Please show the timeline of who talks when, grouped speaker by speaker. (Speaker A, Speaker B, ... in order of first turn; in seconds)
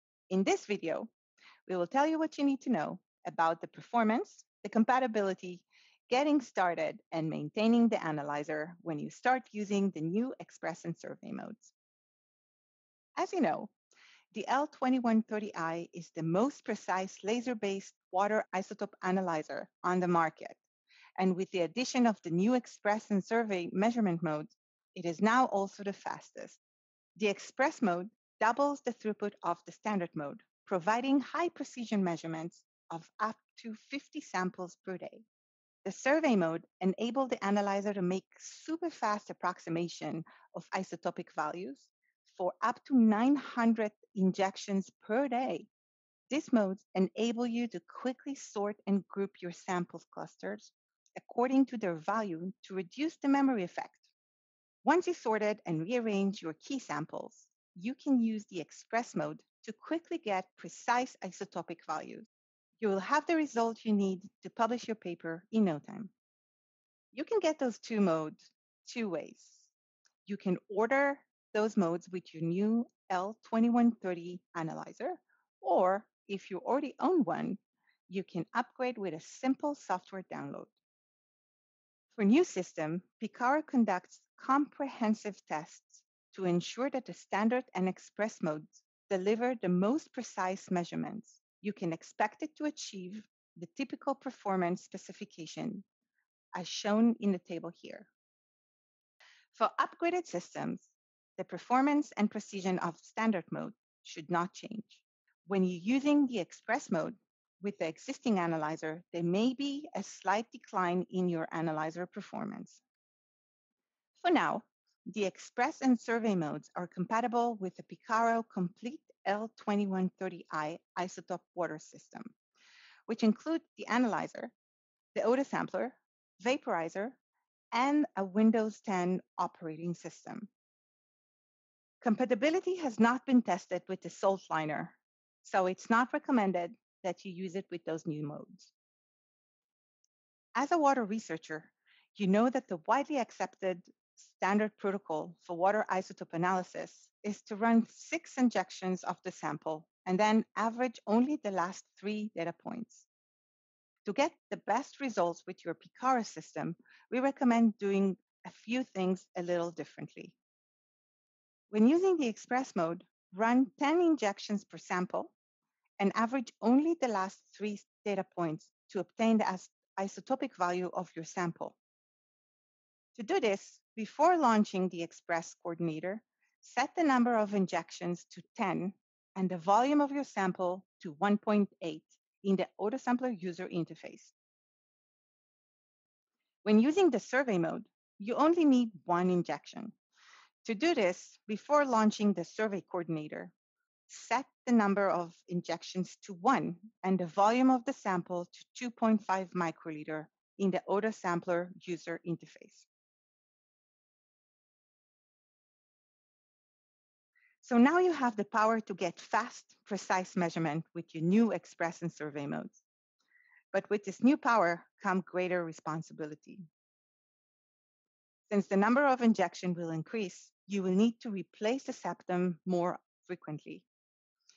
Speaker A: 0.3-1.1, 1.7-11.7, 13.2-13.7, 14.3-20.6, 21.2-26.6, 27.2-35.2, 35.8-45.7, 46.3-54.1, 54.8-62.3, 62.8-66.1, 67.1-69.7, 70.3-80.7, 82.2-95.8, 96.5-98.1, 99.5-112.8, 114.2-122.3, 123.1-124.5, 125.1-127.2, 127.7-130.5, 132.0-138.7, 140.5-153.1, 154.0-160.4, 161.7-165.3, 166.0-171.8, 173.1-184.3, 186.6-189.9, 190.6-193.5, 194.1-202.9, 207.6-212.8, 213.7-216.6, 218.5-223.9